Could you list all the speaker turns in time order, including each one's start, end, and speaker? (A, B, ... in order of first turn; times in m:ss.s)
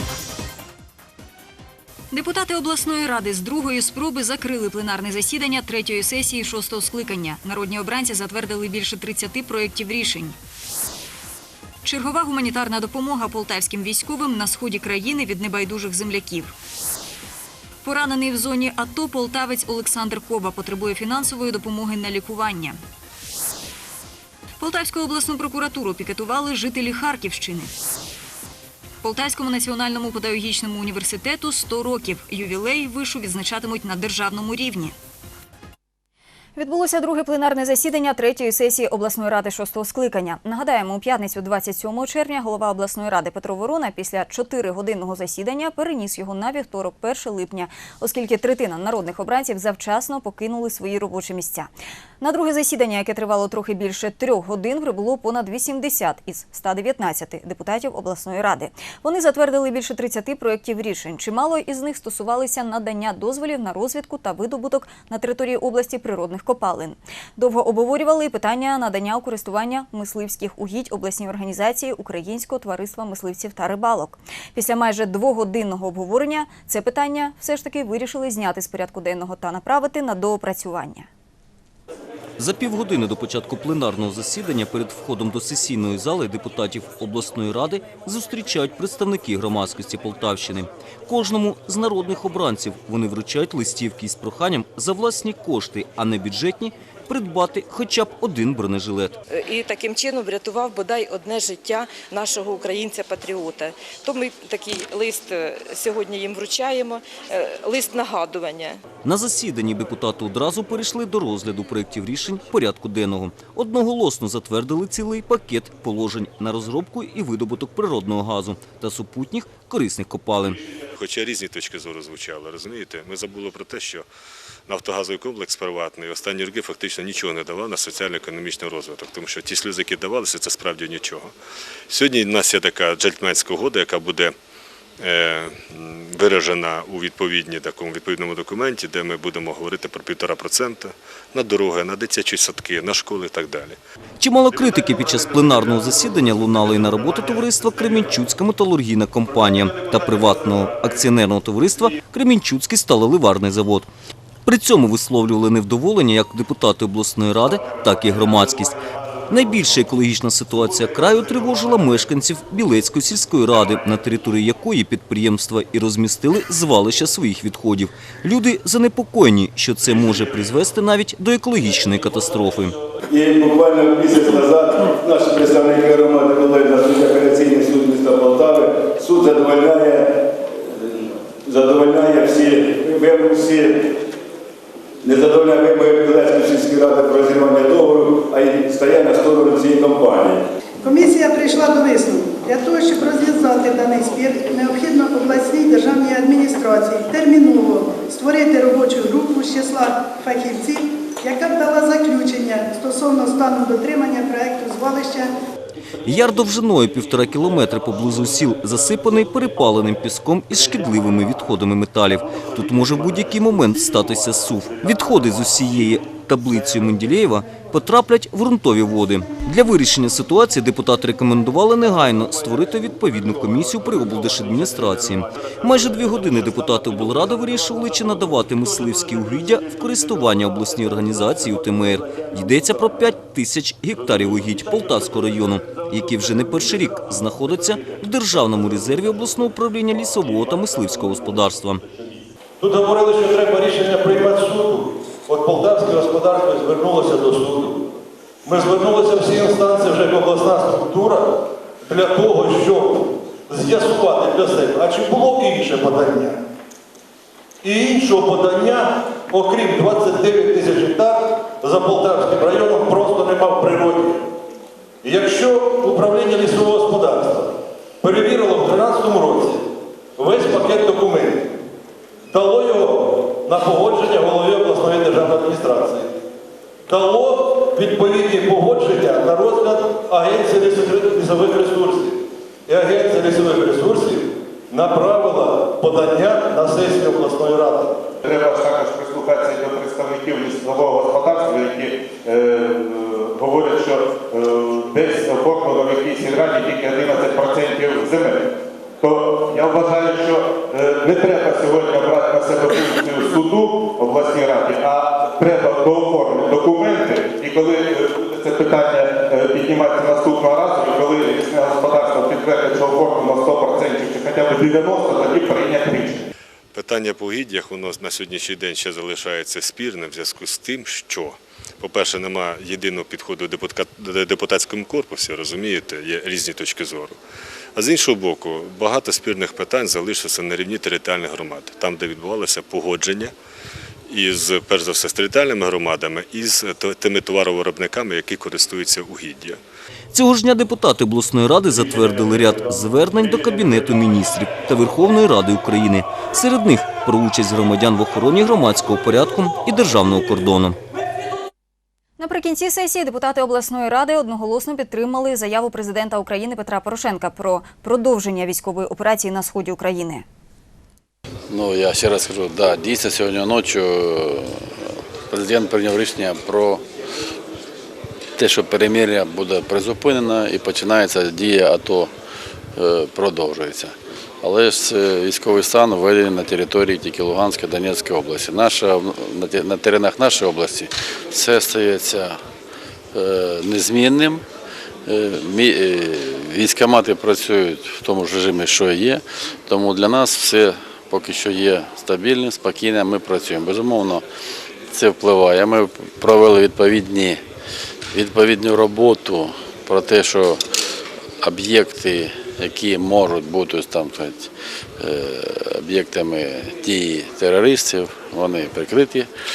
0:02.1-0:10.3 A
0:11.8-0:16.5 A
0:17.8-0:22.8 A
0:24.6-0:27.7 A
0:29.0-0:34.9 A
0:36.6-0:51.7 A
0:52.2-1:21.1 A
1:22.4-1:39.2 B
1:40.9-1:43.2 C
1:44.0-1:46.8 C
1:47.8-1:48.1 C
1:49.0-2:00.6 B
2:00.9-2:04.0 D
2:04.7-2:11.3 D
2:11.9-2:14.3 D
2:15.0-2:23.8 D
2:24.2-2:33.9 B
2:34.4-2:52.7 B
2:53.1-3:04.0 E
3:05.0-3:10.4 E
3:10.8-3:25.3 F
3:26.0-4:01.8 B
4:02.6-4:07.8 G
4:08.4-4:16.4 G
4:17.6-4:24.2 G
4:25.0-4:29.6 G
4:30.2-4:31.5 G
4:32.3-4:36.1 G
4:36.9-4:48.0 G
4:48.2-4:58.4 H
4:59.0-5:16.2 H
5:16.7-5:27.2 D
5:27.7-5:33.3 D
5:34.1-5:39.6 D
5:40.1-5:50.8 B
5:52.2-6:00.2 A
6:01.5-6:06.8 I
6:08.4-6:12.1 I
6:12.8-6:22.4 I
6:23.1-6:24.4 I
6:25.1-6:34.2 I
6:34.9-6:37.4 I
6:38.1-6:40.6 I
6:41.4-6:49.3 I